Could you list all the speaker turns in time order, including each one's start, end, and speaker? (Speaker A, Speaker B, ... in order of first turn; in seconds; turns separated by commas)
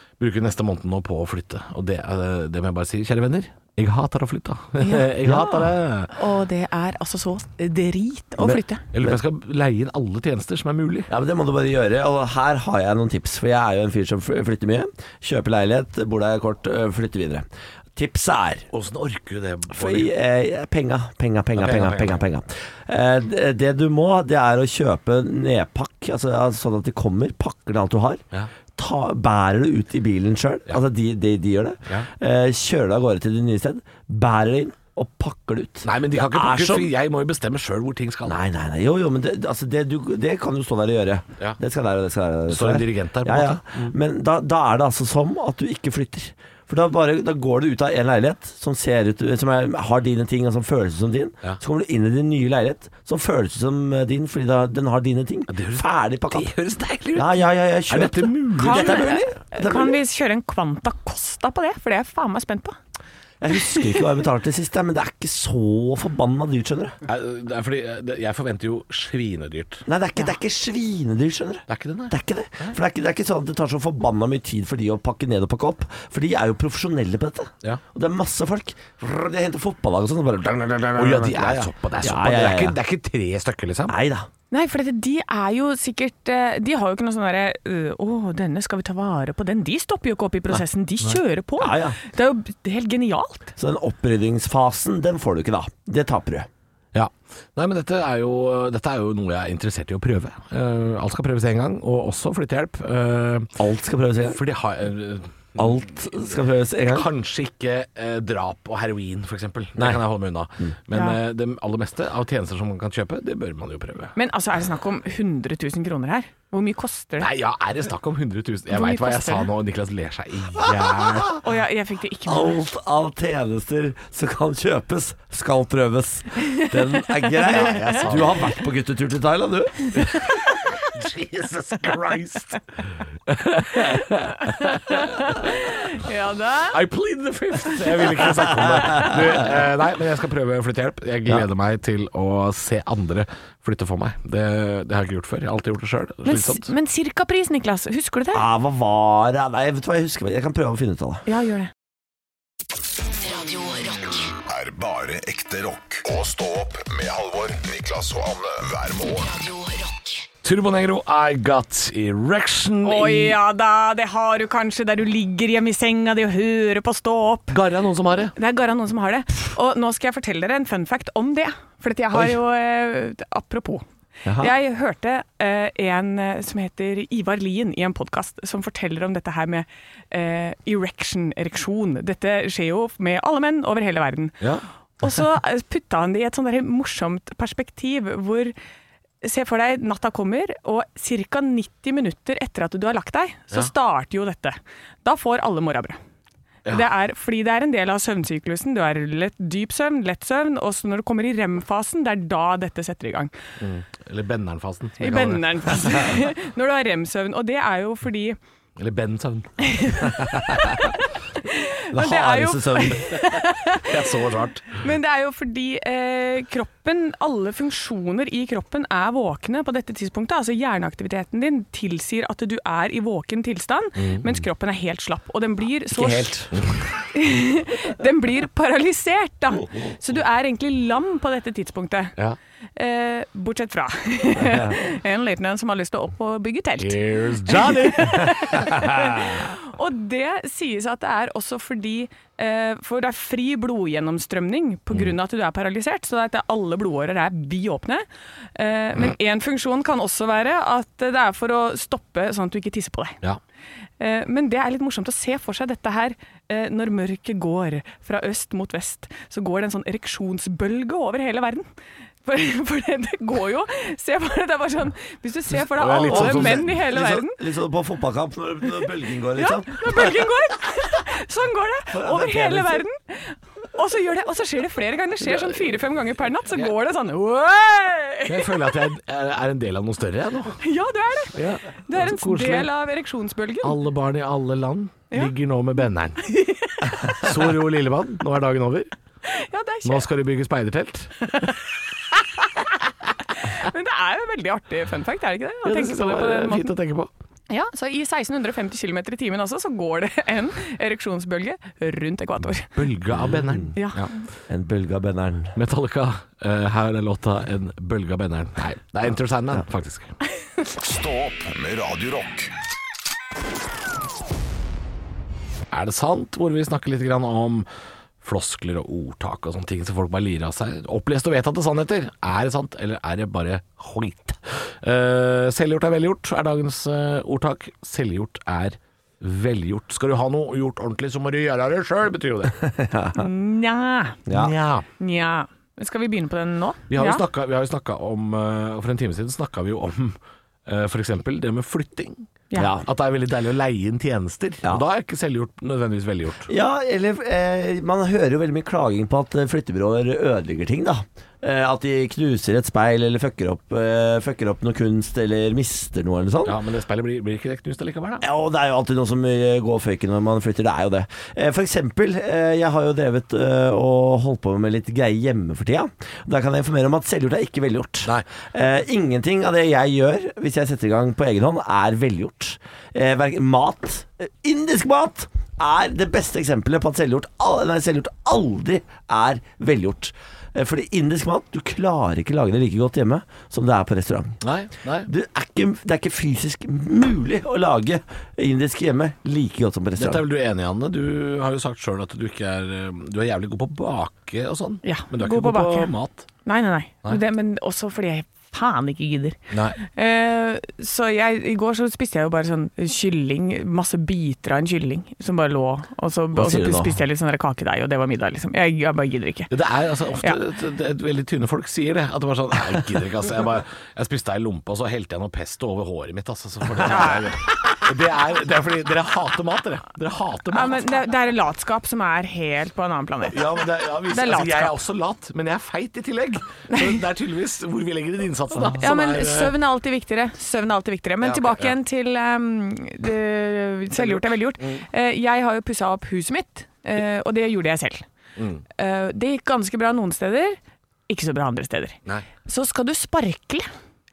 Speaker A: 0.2-6.1, Speaker B: 4.8-5.4, Speaker C: 5.2-5.5, Speaker B: 6.1-8.8, Speaker C: 8.4-9.2, Speaker A: 8.9-11.1, Speaker C: 11.1-18.7, Speaker A: 18.7-20.1, Speaker C: 19.7-28.2, Speaker A: 21.6-22.2, Speaker C: 28.8-36.9, Speaker A: 35.8-38.4, Speaker C: 38.2-56.5, Speaker A: 42.5-43.9, Speaker A: 55.5-59.2, Speaker C: 57.1-60.0, Speaker B: 58.6-62.8, Speaker C: 63.4-67.0, Speaker A: 67.0-69.8, Speaker C: 69.8-82.8, Speaker A: 71.7-72.8, Speaker A: 81.0-84.0, Speaker C: 83.9-84.3, Speaker B: 84.5-93.5, Speaker C: 91.6-92.0, Speaker C: 93.6-96.5, Speaker A: 96.9-103.6, Speaker C: 103.6-104.4, Speaker A: 104.3-114.1, Speaker C: 105.6-107.1, Speaker B: 110.9-111.2, Speaker B: 114.2-117.3, Speaker A: 117.2-121.4, Speaker B: 118.7-119.5, Speaker C: 120.6-121.3, Speaker B: 121.4-122.6, Speaker C: 122.2-130.0, Speaker B: 126.5-128.0, Speaker A: 127.5-128.5, Speaker A: 130.8-132.6, Speaker A: 133.3-135.3, Speaker B: 133.7-136.8, Speaker A: 136.7-146.7, Speaker C: 138.8-139.2, Speaker B: 146.2-148.4, Speaker C: 148.3-151.2, Speaker B: 151.3-151.7, Speaker D: 153.1-154.3, Speaker E: 154.4-159.3, Speaker D: 159.1-160.2, Speaker A: 160.4-163.4, Speaker B: 162.8-167.6, Speaker A: 167.5-168.3, Speaker B: 168.3-173.8, Speaker C: 174.2-174.5, Speaker B: 174.4-184.4, Speaker B: 185.0-188.5, Speaker B: 189.2-196.0, Speaker B: 196.7-203.3, Speaker A: 203.6-205.8, Speaker B: 205.0-208.4, Speaker A: 208.8-209.9, Speaker B: 209.6-213.9, Speaker C: 211.9-213.3, Speaker A: 213.8-214.8, Speaker B: 214.7-226.5, Speaker A: 224.0-224.2, Speaker C: 225.9-226.5, Speaker A: 226.5-226.8, Speaker B: 227.1-232.1, Speaker B: 232.8-253.2, Speaker C: 234.4-234.8, Speaker A: 236.8-238.7, Speaker C: 238.6-239.1, Speaker B: 254.0-261.6, Speaker B: 262.2-267.4, Speaker A: 265.7-266.7, Speaker C: 266.0-270.2, Speaker B: 269.3-278.5, Speaker C: 271.9-272.8, Speaker A: 275.2-275.8, Speaker A: 278.3-280.6, Speaker B: 280.6-283.7, Speaker A: 281.3-282.7, Speaker A: 283.6-286.2, Speaker B: 286.2-287.1, Speaker A: 287.2-288.9, Speaker B: 289.2-290.1, Speaker A: 289.8-291.4, Speaker B: 293.4-296.7, Speaker A: 295.6-297.1, Speaker B: 297.5-302.7, Speaker A: 302.7-304.1, Speaker B: 303.7-304.1, Speaker C: 304.5-305.5, Speaker A: 305.5-310.1, Speaker E: 310.8-312.5, Speaker A: 315.7-317.6, Speaker A: 318.2-332.6, Speaker C: 332.6-333.2, Speaker B: 333.1-334.2, Speaker C: 334.3-334.5, Speaker A: 334.3-334.8, Speaker B: 335.0-337.2, Speaker A: 336.9-346.5, Speaker C: 342.6-342.8, Speaker C: 346.5-356.6, Speaker A: 356.4-358.2, Speaker C: 358.2-384.4, Speaker A: 384.4-385.1, Speaker C: 385.0-390.2, Speaker A: 390.0-396.3, Speaker B: 394.8-395.9, Speaker B: 396.4-409.5, Speaker A: 399.5-399.8, Speaker C: 406.3-407.0, Speaker A: 409.5-421.1, Speaker B: 416.8-417.2, Speaker B: 420.5-424.7, Speaker A: 423.3-429.5, Speaker B: 426.7-427.0, Speaker B: 428.8-438.1, Speaker A: 431.2-431.7, Speaker A: 433.9-434.8, Speaker A: 438.4-438.6, Speaker B: 438.8-443.7